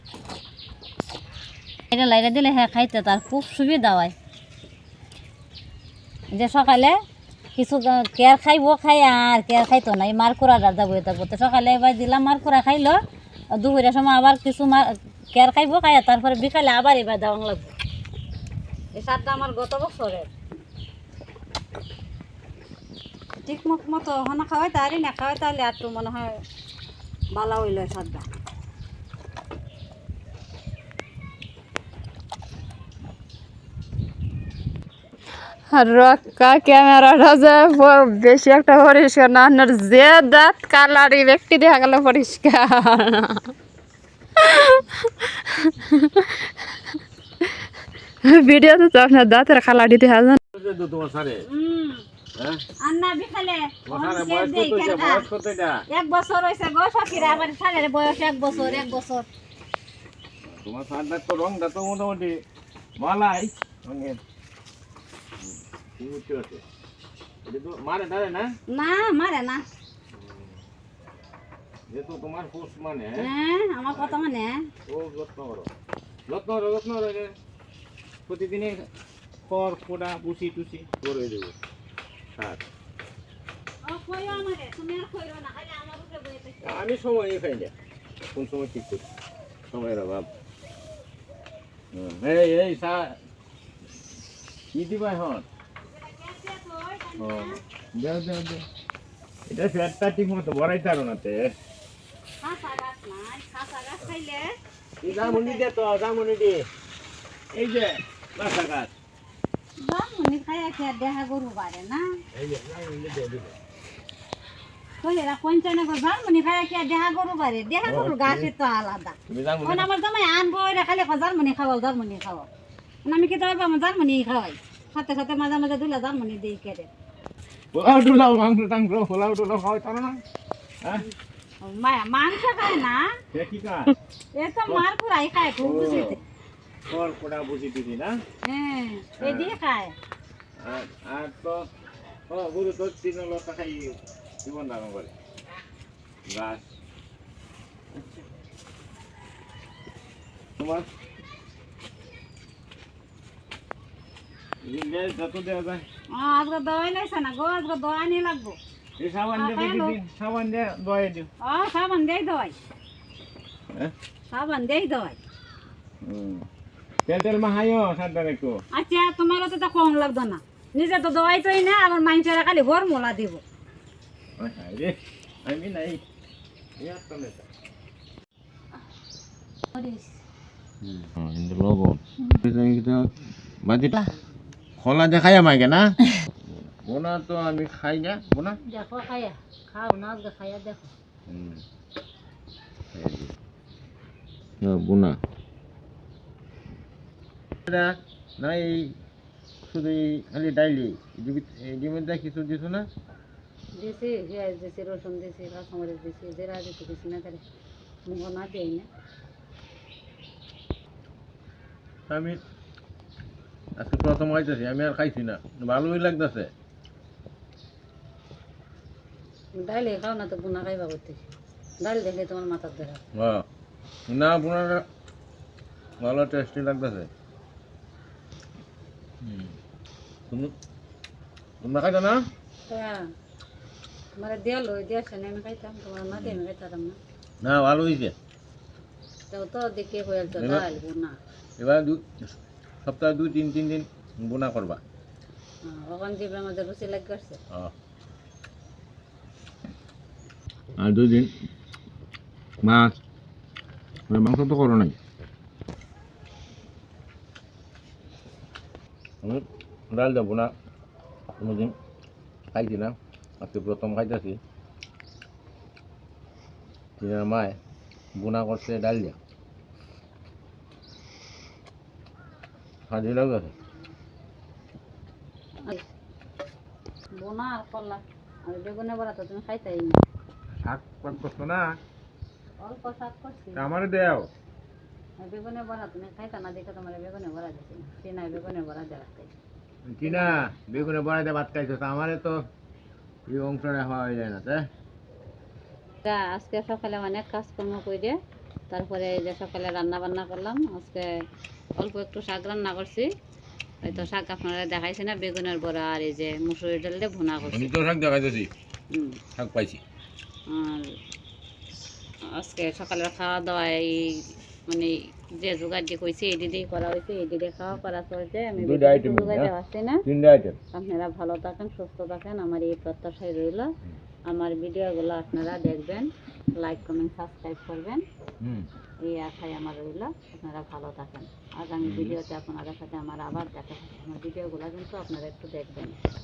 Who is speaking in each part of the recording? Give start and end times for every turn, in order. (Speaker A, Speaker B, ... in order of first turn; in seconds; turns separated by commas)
Speaker A: 1.9-4.1, Speaker A: 6.3-7.0, Speaker A: 7.6-13.0, Speaker A: 13.5-17.8, Speaker A: 18.9-20.3, Speaker A: 23.4-26.4, Speaker A: 27.4-28.3, Speaker B: 35.7-43.5, Speaker B: 44.4-44.9, Speaker B: 45.6-46.3, Speaker B: 48.2-50.4, Speaker C: 50.5-51.5, Speaker A: 51.5-52.0, Speaker A: 52.8-55.3, Speaker C: 53.9-55.8, Speaker A: 55.9-59.3, Speaker C: 57.1-57.5, Speaker C: 58.1-59.0, Speaker C: 60.4-62.4, Speaker C: 63.0-64.2, Speaker C: 65.4-66.6, Speaker C: 67.5-68.5, Speaker A: 68.7-69.7, Speaker C: 70.1-70.6, Speaker C: 71.9-73.3, Speaker A: 73.2-74.7, Speaker C: 73.9-74.2, Speaker C: 74.9-75.7, Speaker C: 76.3-77.3, Speaker C: 78.3-78.9, Speaker C: 79.4-81.5, Speaker C: 82.4-82.6, Speaker A: 83.9-86.7, Speaker C: 86.6-87.7, Speaker C: 88.3-89.0, Speaker C: 89.7-90.3, Speaker C: 91.9-93.2, Speaker C: 94.7-95.5, Speaker A: 95.8-97.6, Speaker C: 97.2-98.7, Speaker C: 99.5-101.5, Speaker A: 102.4-105.7, Speaker C: 105.0-106.7, Speaker C: 107.5-108.9, Speaker A: 109.8-112.0, Speaker C: 112.3-113.5, Speaker A: 115.0-122.5, Speaker C: 117.8-118.5, Speaker C: 119.3-119.9, Speaker A: 123.1-126.9, Speaker C: 127.7-130.2, Speaker A: 130.9-133.1, Speaker C: 133.3-133.9, Speaker A: 134.4-136.2, Speaker C: 135.6-136.2, Speaker C: 136.9-138.2, Speaker A: 138.4-139.9, Speaker C: 139.2-139.6, Speaker C: 140.6-141.6, Speaker C: 142.3-145.1, Speaker C: 146.3-146.7, Speaker C: 150.6-150.9, Speaker C: 154.6-155.8, Speaker A: 156.1-158.6, Speaker C: 159.0-161.3, Speaker A: 159.3-160.0, Speaker A: 161.4-162.6, Speaker A: 164.3-165.2, Speaker C: 166.0-166.5, Speaker C: 167.1-168.6, Speaker A: 168.7-173.4, Speaker C: 174.4-176.0, Speaker C: 176.8-177.5, Speaker A: 179.7-180.2, Speaker C: 180.8-183.1, Speaker C: 183.6-184.1, Speaker C: 184.8-185.9, Speaker C: 186.5-188.6, Speaker A: 188.6-190.9, Speaker C: 191.3-191.6, Speaker C: 192.9-193.3, Speaker C: 194.6-195.2, Speaker C: 197.7-198.9, Speaker C: 199.7-202.9, Speaker A: 203.8-207.4, Speaker A: 208.1-208.9, Speaker C: 212.1-212.4, Speaker C: 213.8-216.5, Speaker A: 219.6-221.2, Speaker A: 221.8-223.0, Speaker C: 223.2-223.4, Speaker C: 224.1-224.8, Speaker C: 226.0-227.1, Speaker C: 229.2-229.5, Speaker C: 231.6-232.2, Speaker A: 232.7-233.1, Speaker A: 234.2-237.0, Speaker C: 236.1-236.4, Speaker C: 237.4-238.1, Speaker A: 239.3-241.2, Speaker C: 240.4-240.7, Speaker C: 241.6-242.3, Speaker C: 242.8-244.8, Speaker A: 245.6-247.4, Speaker C: 250.8-251.3, Speaker C: 252.6-253.0, Speaker C: 254.1-254.9, Speaker C: 259.2-260.5, Speaker C: 261.4-261.8, Speaker C: 262.5-264.4, Speaker C: 267.0-267.6, Speaker C: 268.2-269.2, Speaker C: 272.9-273.5, Speaker A: 277.2-280.0, Speaker C: 280.6-281.7, Speaker A: 282.6-283.7, Speaker C: 283.6-284.3, Speaker A: 285.2-289.3, Speaker C: 289.9-292.4, Speaker A: 290.0-290.9, Speaker C: 293.3-294.6, Speaker A: 296.0-298.2, Speaker A: 298.7-301.1, Speaker A: 301.8-303.1, Speaker A: 303.8-307.7, Speaker C: 307.4-308.5, Speaker A: 308.9-309.2, Speaker C: 309.4-309.8, Speaker A: 310.5-310.9, Speaker A: 312.3-320.1, Speaker C: 318.6-319.5, Speaker C: 320.1-320.6, Speaker A: 320.7-323.7, Speaker A: 324.3-328.1, Speaker C: 328.4-328.7, Speaker A: 329.0-336.0, Speaker C: 331.8-332.2